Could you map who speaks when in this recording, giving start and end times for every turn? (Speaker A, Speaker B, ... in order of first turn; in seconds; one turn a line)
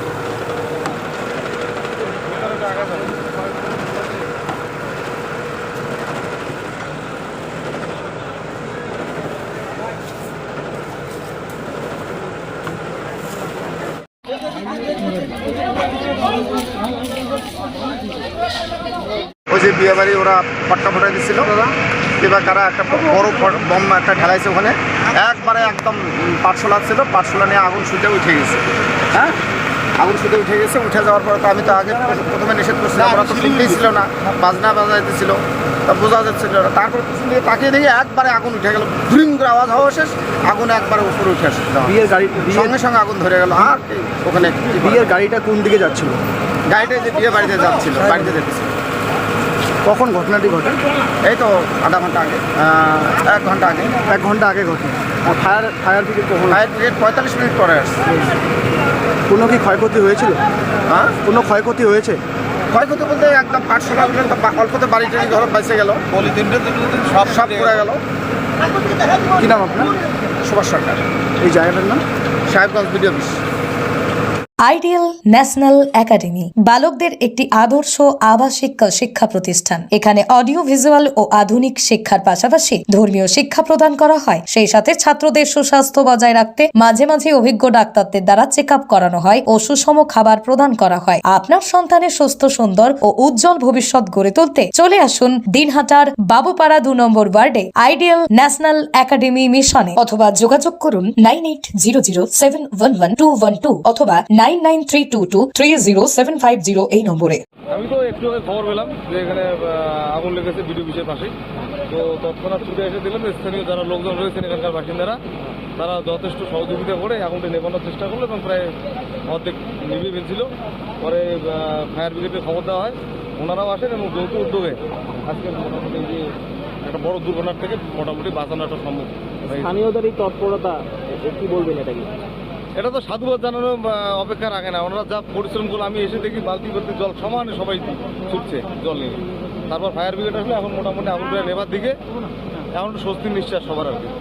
Speaker A: 2.6-3.0
Speaker B: 19.5-21.6
Speaker B: 22.2-29.4
Speaker B: 30.0-45.1
Speaker C: 41.9-42.7
Speaker C: 44.9-46.2
Speaker B: 46.7-48.7
Speaker C: 49.8-50.8
Speaker B: 51.2-54.0
Speaker C: 54.0-56.6
Speaker B: 56.5-58.0
Speaker C: 59.3-60.4
Speaker B: 60.9-61.2
Speaker C: 61.2-62.2
Speaker B: 62.7-66.0
Speaker A: 66.1-67.8
Speaker B: 67.2-68.0
Speaker C: 69.4-69.9
Speaker B: 70.4-71.0
Speaker C: 71.4-72.0
Speaker B: 72.5-73.3
Speaker D: 74.6-107.4
Speaker A: 107.7-111.3
Speaker A: 111.9-115.2
Speaker A: 115.8-118.7
Speaker A: 119.2-120.5
Speaker A: 121.0-126.3
Speaker A: 126.8-129.8
Speaker E: 129.5-132.1
Speaker A: 132.7-142.0
Speaker A: 142.8-144.1